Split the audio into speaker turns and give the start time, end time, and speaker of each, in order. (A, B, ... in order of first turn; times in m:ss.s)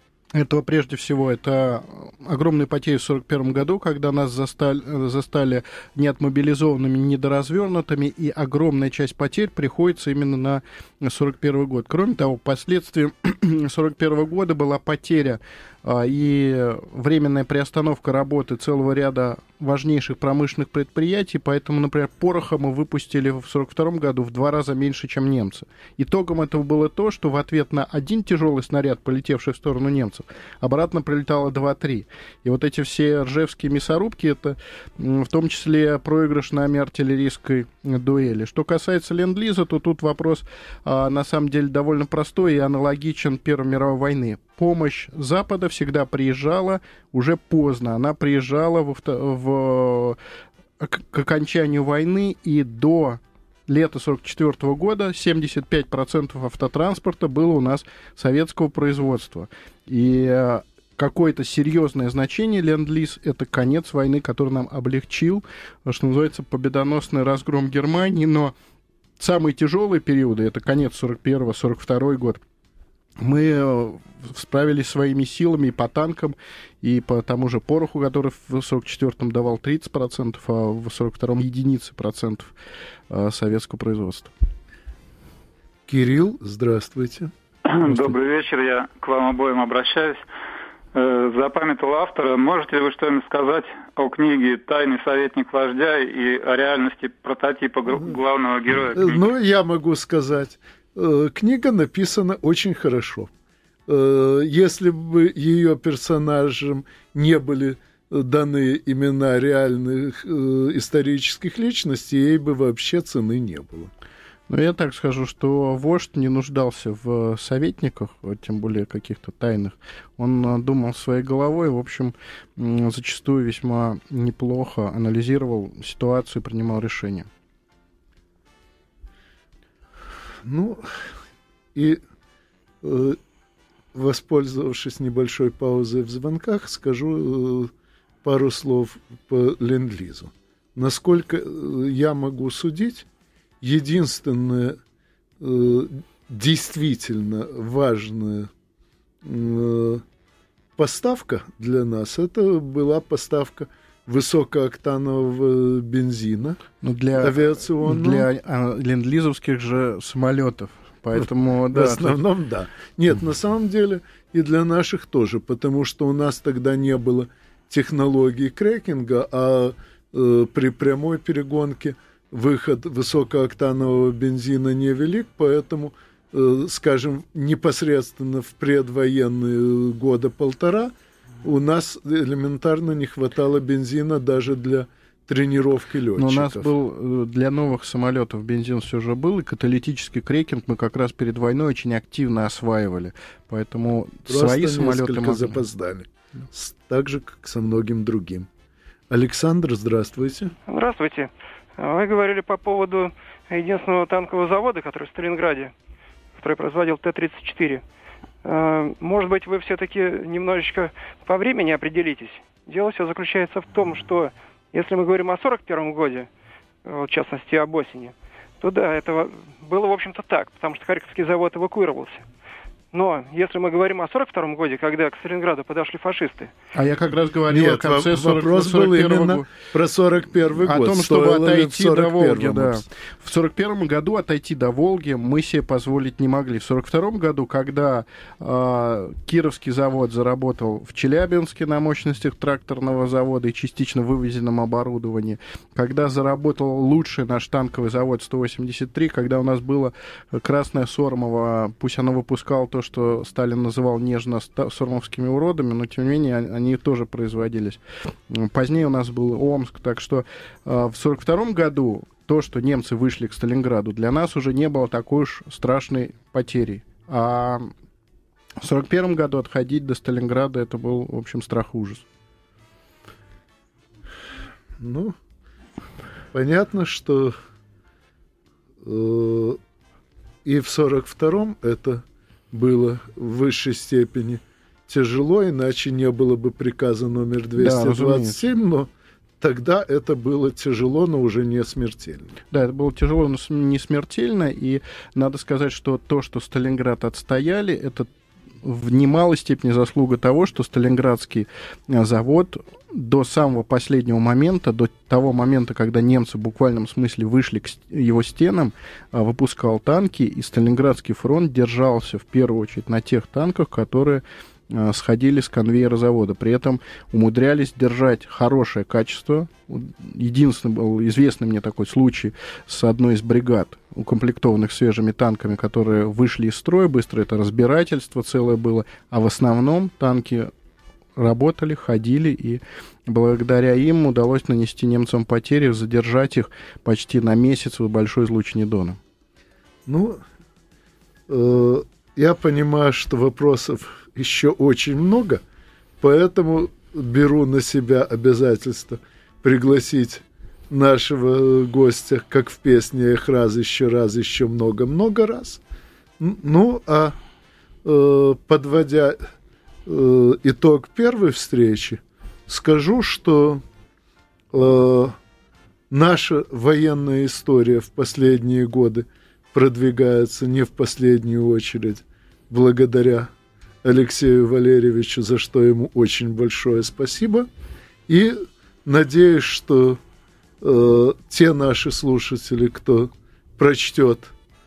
0:00.3-0:50.2 A
0:50.8-1:08.5 A
1:09.2-1:12.4 A
1:13.2-1:22.5 A
1:23.1-1:24.3 A
1:25.9-1:27.3 B
1:27.7-1:30.2 C
1:27.9-1:28.1 A
1:30.9-1:39.3 C
1:38.9-1:43.3 B
1:43.9-1:53.9 B
1:54.5-2:07.3 A
2:10.4-2:11.0 B
2:11.7-2:12.0 B
2:12.8-2:13.2 B
2:13.9-2:17.7 B
2:18.2-2:23.0 B
2:23.6-2:24.8 B
2:25.4-2:28.5 B
2:29.2-2:30.0 B
2:30.8-2:36.6 B
2:36.8-2:42.2 A
2:37.2-2:38.3 B
2:41.2-3:06.7 B
3:06.2-3:15.6 A
3:14.3-3:18.5 B
3:19.1-3:20.5 B
3:20.7-3:25.7 D
3:26.4-3:27.8 D
3:28.4-3:36.3 D
3:36.8-3:42.2 D
3:42.9-3:46.5 D
3:46.7-3:49.4 A
3:47.5-3:52.8 B
3:50.6-4:27.7 A
4:28.6-4:32.0 A
4:34.8-4:35.1 B
4:36.3-4:37.3 B
4:38.8-4:39.6 B
4:40.4-4:52.3 B
4:47.6-4:48.4 A
4:52.5-4:58.1 A
4:58.6-5:30.5 A
5:31.2-5:39.0 A
5:39.8-5:40.2 B
5:41.3-5:45.4 B
5:46.0-5:55.6 B
5:56.2-5:57.2 B
5:57.8-5:59.2 B
5:59.8-6:03.6 B
6:04.5-6:05.2 B
6:05.9-6:13.3 B
6:13.8-6:17.5 B
6:18.1-6:20.0 B
6:20.6-6:24.3 B